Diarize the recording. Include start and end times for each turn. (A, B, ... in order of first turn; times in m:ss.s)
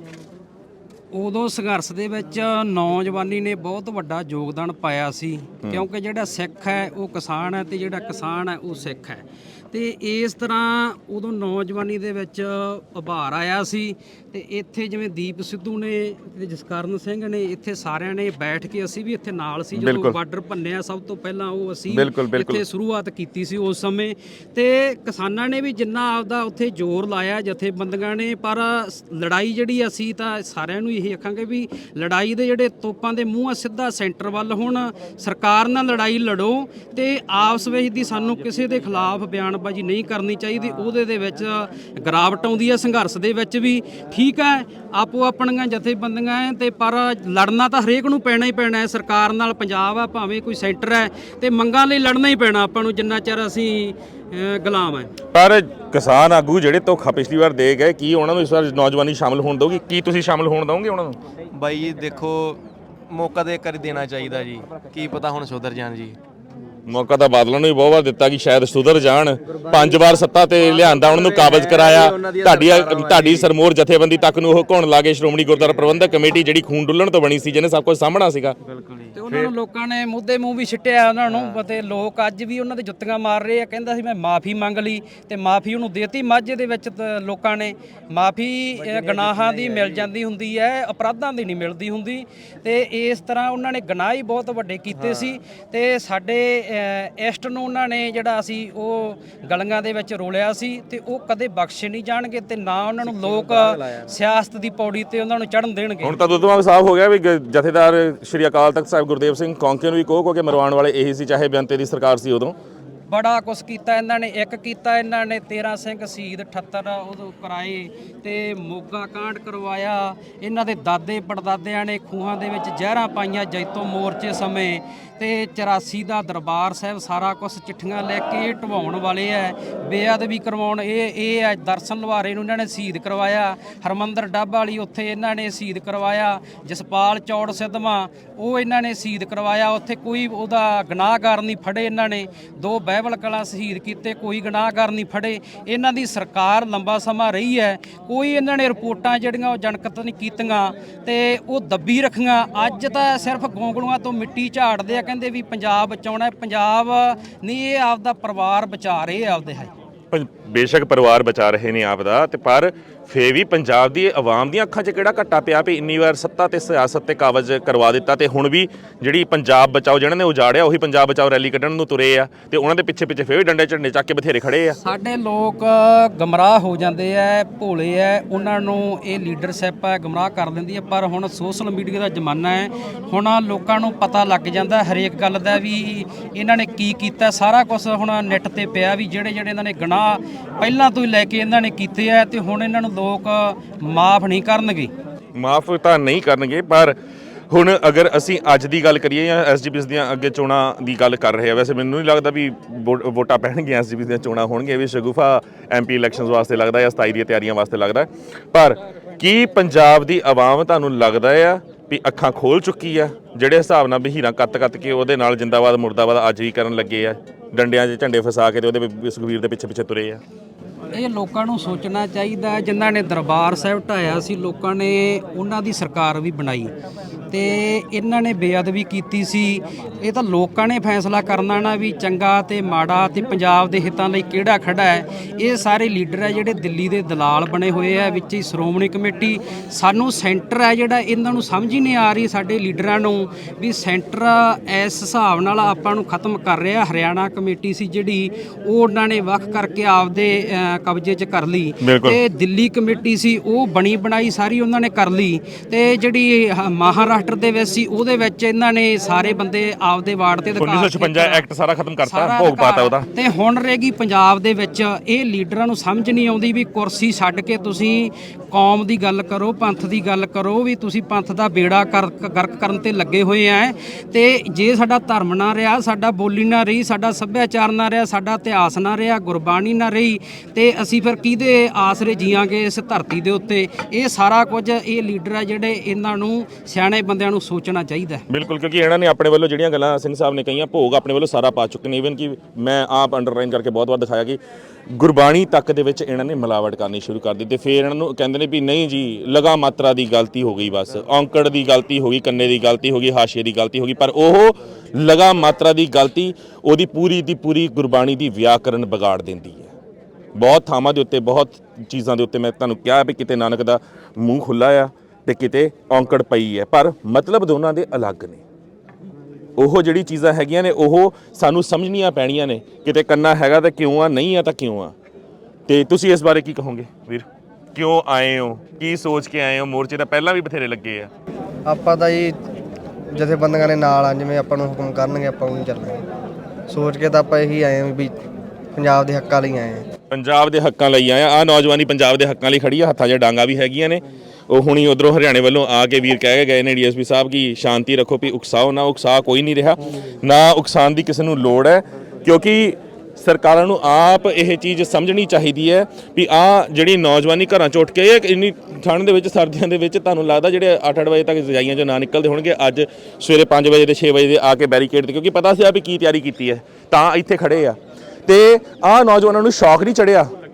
0:01.1-0:55.1 A
0:19.7-0:20.2 B
0:21.9-0:22.6 B
0:55.3-1:01.2 B
1:01.5-1:06.2 C
1:06.9-1:18.6 B
1:10.6-1:13.5 C
1:15.6-1:15.9 C
1:18.6-1:19.2 C
1:19.1-1:46.2 A
1:28.8-1:30.1 C
1:43.2-1:44.0 C
1:46.0-1:52.6 B
1:53.1-2:39.7 A
2:40.1-2:54.8 B
2:54.8-3:14.9 A
3:15.4-3:17.0 B
3:17.5-3:40.2 B
3:40.9-3:46.7 A
3:47.3-4:21.4 A
4:11.8-4:12.2 B
4:20.6-4:23.0 B
4:22.1-4:48.2 A
4:48.3-4:54.4 B
4:54.9-5:09.7 B
5:10.3-5:18.4 B
5:19.6-5:24.9 B
5:25.7-5:31.1 B
5:31.6-5:32.4 D
5:33.1-5:36.0 D
5:36.7-5:38.2 D
5:38.7-5:39.8 D
5:40.1-6:10.3 B